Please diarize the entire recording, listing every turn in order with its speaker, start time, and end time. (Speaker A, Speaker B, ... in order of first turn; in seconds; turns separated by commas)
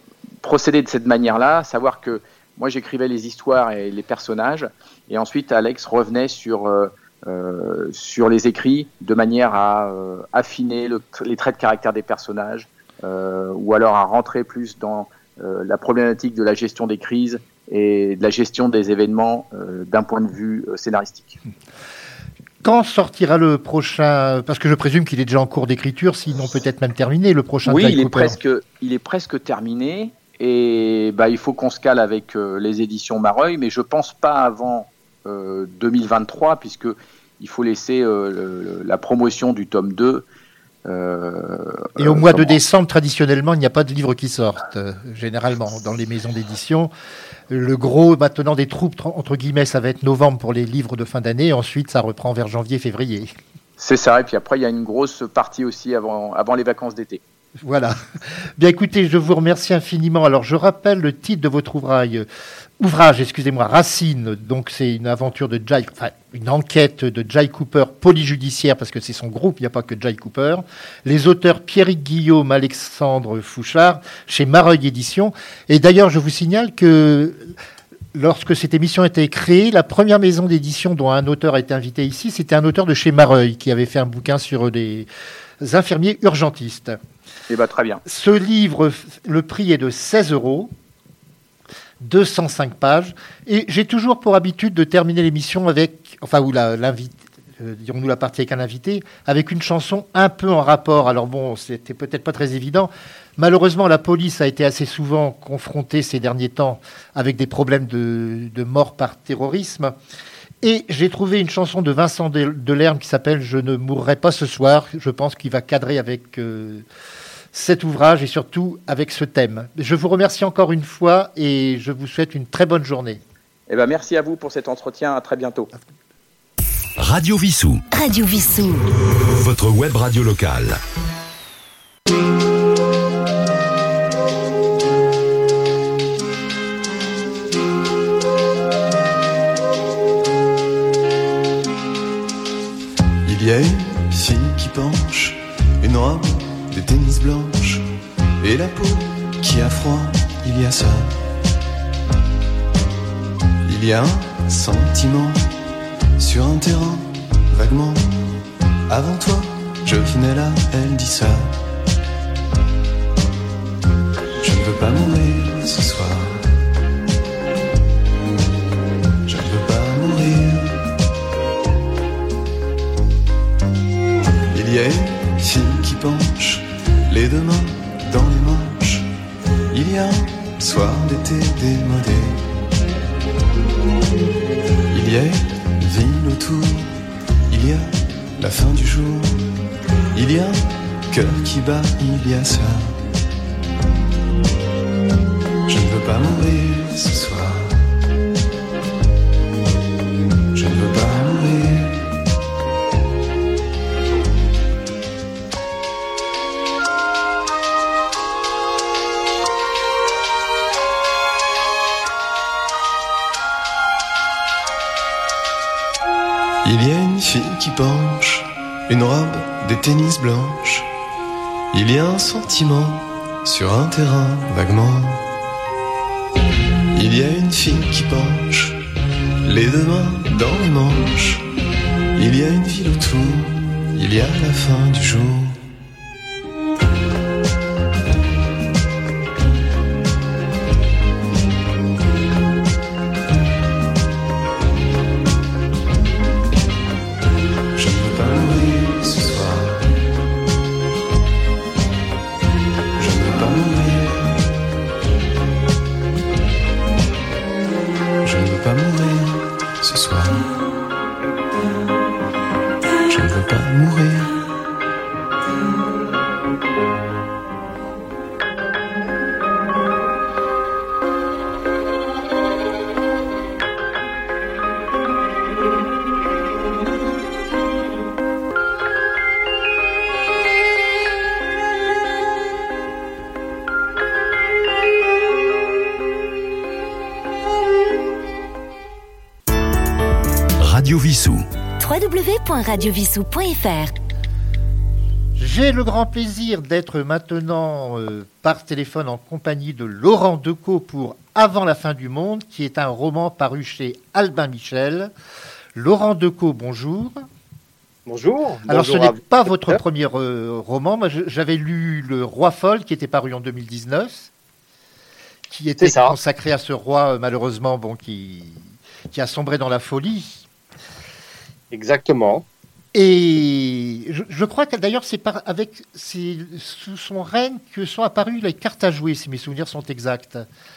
Speaker A: 0.4-21.4, Speaker B: 22.6-28.4, Speaker A: 27.6-40.2, Speaker A: 40.8-42.6, Speaker B: 42.0-46.9, Speaker B: 47.5-53.3, Speaker A: 53.8-57.2, Speaker B: 57.6-58.0, Speaker B: 58.6-62.3, Speaker B: 62.8-77.5, Speaker B: 78.1-85.1, Speaker B: 85.6-87.0, Speaker A: 87.5-88.0, Speaker B: 88.0-90.7, Speaker B: 92.0-109.9, Speaker B: 110.6-116.8, Speaker B: 117.5-123.2, Speaker A: 123.7-125.7, Speaker C: 127.0-127.8, Speaker D: 127.9-128.9, Speaker C: 129.1-130.8, Speaker E: 143.2-147.9, Speaker E: 148.4-151.2, Speaker E: 153.6-155.5, Speaker E: 156.2-158.4, Speaker E: 158.9-161.6, Speaker E: 164.4-166.4, Speaker E: 169.2-170.8, Speaker E: 174.5-179.1, Speaker E: 179.7-182.4, Speaker E: 184.9-186.9, Speaker E: 187.5-189.4, Speaker E: 190.1-192.9, Speaker E: 195.7-197.8, Speaker E: 200.5-202.0, Speaker E: 216.6-220.9, Speaker E: 221.7-225.2, Speaker E: 226.9-228.8, Speaker E: 229.4-231.4, Speaker E: 232.2-235.6, Speaker E: 247.8-249.8, Speaker E: 253.0-254.4, Speaker E: 258.2-260.5, Speaker E: 263.1-264.4, Speaker C: 290.6-291.4, Speaker D: 291.8-293.9, Speaker B: 295.4-305.1, Speaker B: 305.7-307.2, Speaker F: 308.1-309.8, Speaker B: 308.7-314.3, Speaker B: 315.5-320.4, Speaker F: 315.8-316.1, Speaker F: 321.7-322.4, Speaker B: 322.9-330.4